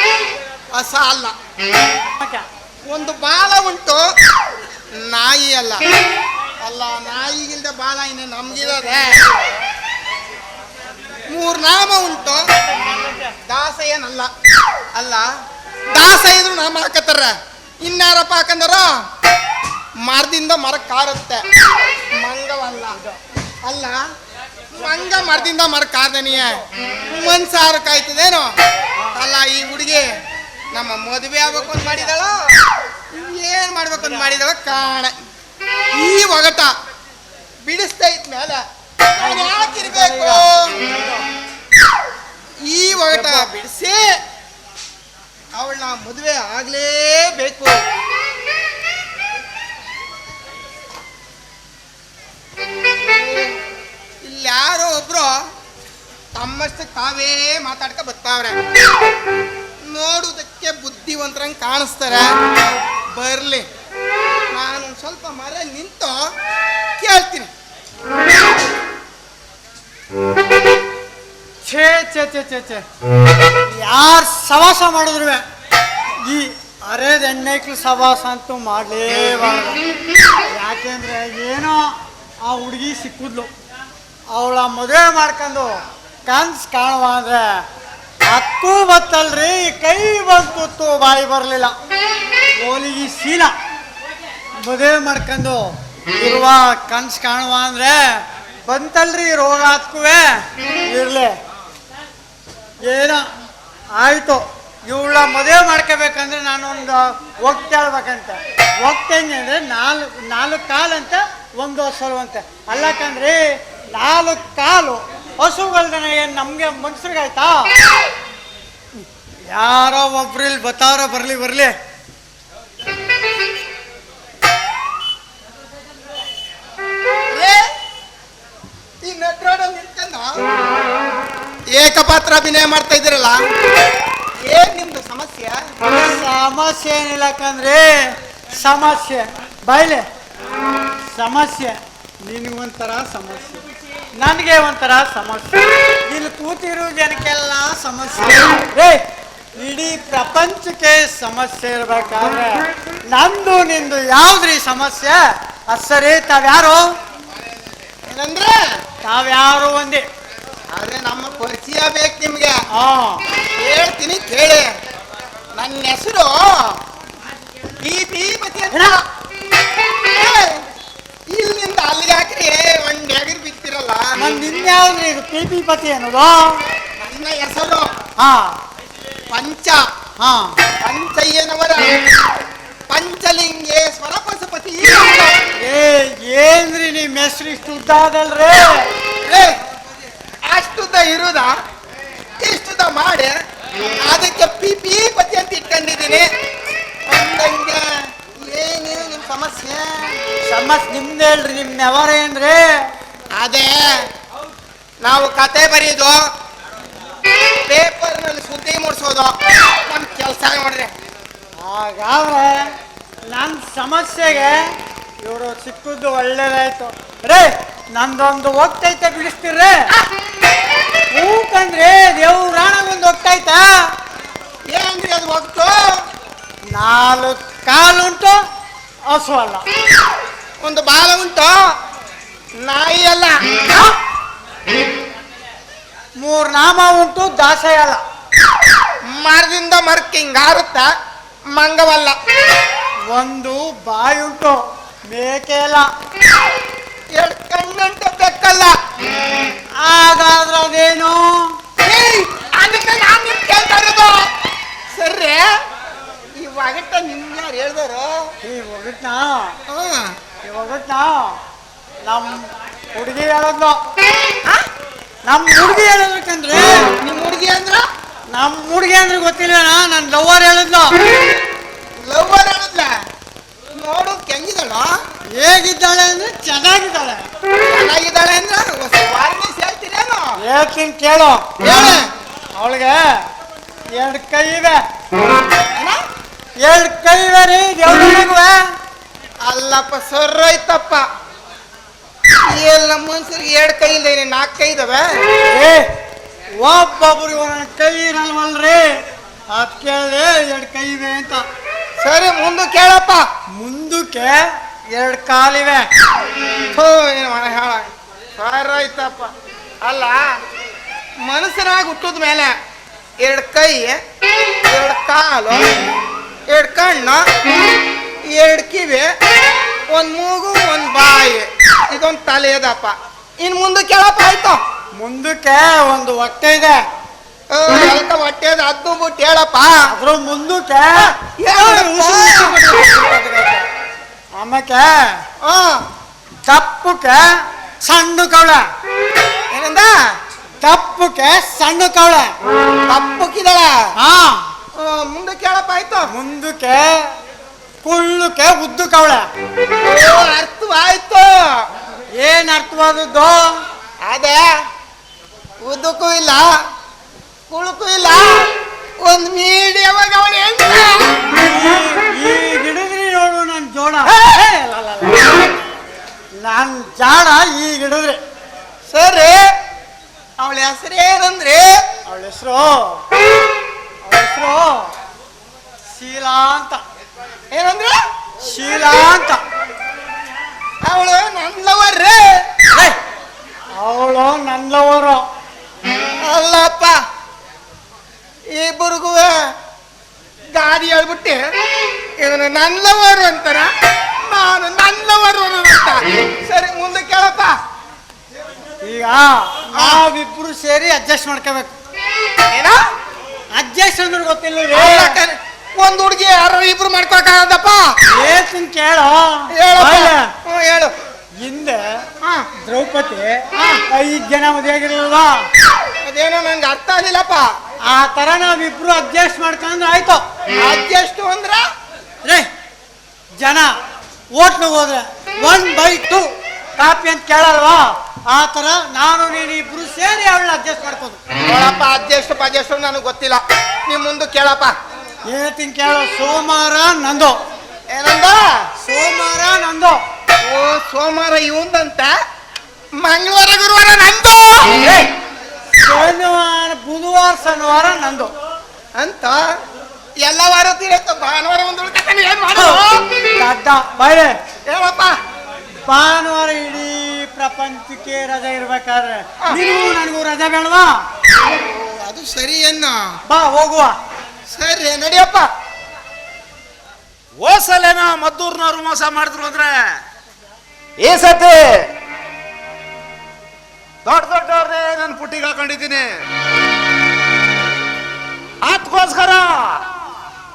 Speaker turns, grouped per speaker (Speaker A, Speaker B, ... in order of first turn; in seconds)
Speaker A: 0.7-1.3, 2.9-4.1, 5.0-5.8, 6.6-9.4, 11.3-12.4, 13.4-14.3, 14.9-15.2, 15.9-19.0, 20.0-21.4, 22.2-23.0, 23.6-24.0, 24.7-28.5, 29.1-30.1, 30.7-32.5, 33.1-35.1, 35.9-36.7, 37.6-38.6, 39.1-40.8, 42.6-44.1, 45.5-47.8, 53.0-53.6, 54.2-55.4, 56.3-58.6, 59.9-63.6, 64.5-66.2, 67.0-67.5, 127.3-127.7, 129.0-130.4, 131.7-133.4, 134.4-135.6, 158.1-158.6, 160.7-162.6, 163.6-164.7, 165.6-166.8, 167.8-169.0, 170.1-170.6, 171.3-174.1, 177.0-177.9, 179.3-179.8, 180.8-182.1, 182.9-185.4, 189.2-189.6, 190.5-191.5, 192.4-193.3, 194.1-196.2, 197.1-200.2, 203.3-204.0, 205.0-206.2, 207.7-210.9, 224.7-226.0, 230.6-231.5, 232.6-233.9, 239.1-240.9, 241.5-242.1, 247.1-248.7, 251.8-254.3, 254.9-255.5, 256.4-258.2, 259.7-260.1, 267.0-267.8, 272.0-272.9, 273.7-274.9, 277.7-280.3, 281.6-282.1, 289.4-291.0, 292.4-295.1, 302.0-303.2, 306.7-309.3, 309.8-310.3, 311.2-312.5, 313.2-314.0, 314.7-315.7, 316.5-317.2, 318.3-319.1, 319.9-324.6, 327.5-329.7, 331.2-333.7, 335.4-335.8, 339.5-339.9, 342.9-343.8, 344.7-346.1, 349.8-351.4, 354.0-354.4, 355.6-356.5, 357.5-361.3, 364.1-364.4, 368.9-369.5, 370.4-371.8, 377.5-377.9, 380.8-382.5, 386.2-386.9, 388.5-389.3, 390.5-391.4, 392.2-397.6, 399.7-400.0, 402.5-402.8, 404.7-407.9, 409.5-410.9, 412.2-412.5, 416.0-417.5, 420.6-421.6, 431.4-434.7, 437.9-438.6, 440.4-442.1, 443.0-444.9, 448.9-449.4, 450.2-453.1, 454.7-455.1, 461.5-463.1, 464.5-465.5
Speaker B: 2.2-2.5, 12.5-13.3, 39.2-40.4, 43.0-43.5, 71.6-72.8, 73.7-75.4, 76.2-79.8, 80.5-83.5, 84.3-87.6, 88.2-91.7, 92.6-93.5, 94.6-101.3, 102.8-103.3, 103.9-117.7, 119.5-121.7, 135.9-140.0, 141.1-143.6, 144.2-149.0, 149.6-156.9, 159.0-160.1, 162.7-163.2, 174.2-176.6, 178.2-178.6, 180.2-180.6, 185.6-188.9, 200.4-202.6, 211.6-212.7, 213.3-214.7, 215.2-219.8, 221.1-223.8, 226.7-228.4, 229.1-229.6, 236.2-238.0, 243.1-245.9, 249.8-251.6, 258.4-259.6, 260.4-261.4, 262.1-263.8, 265.3-266.9, 268.3-271.0, 275.4-277.2, 280.4-281.5, 282.6-283.2, 284.0-284.8, 286.6-288.6, 295.4-295.9, 296.6-298.9, 299.5-301.4, 303.5-305.9, 325.0-326.8, 329.9-332.6, 334.4-335.2, 336.4-338.6, 340.6-342.3, 344.0-344.4, 346.1-347.1, 347.8-349.2, 352.2-353.6, 361.3-365.4, 366.4-368.2, 372.1-373.0, 374.0-374.9, 375.9-376.8, 378.4-379.4, 383.8-385.2, 398.8-401.7, 403.5-405.2, 408.1-410.3, 411.4-412.0, 412.6-415.5, 417.9-420.2, 423.4-423.7, 424.4-431.2, 435.3-437.4, 438.8-440.0, 445.8-448.3, 452.5-452.8, 453.4-454.3, 455.8-461.0, 463.3-463.9
Speaker C: 467.4-470.0, 471.0-471.9, 474.0-476.2, 478.6-479.8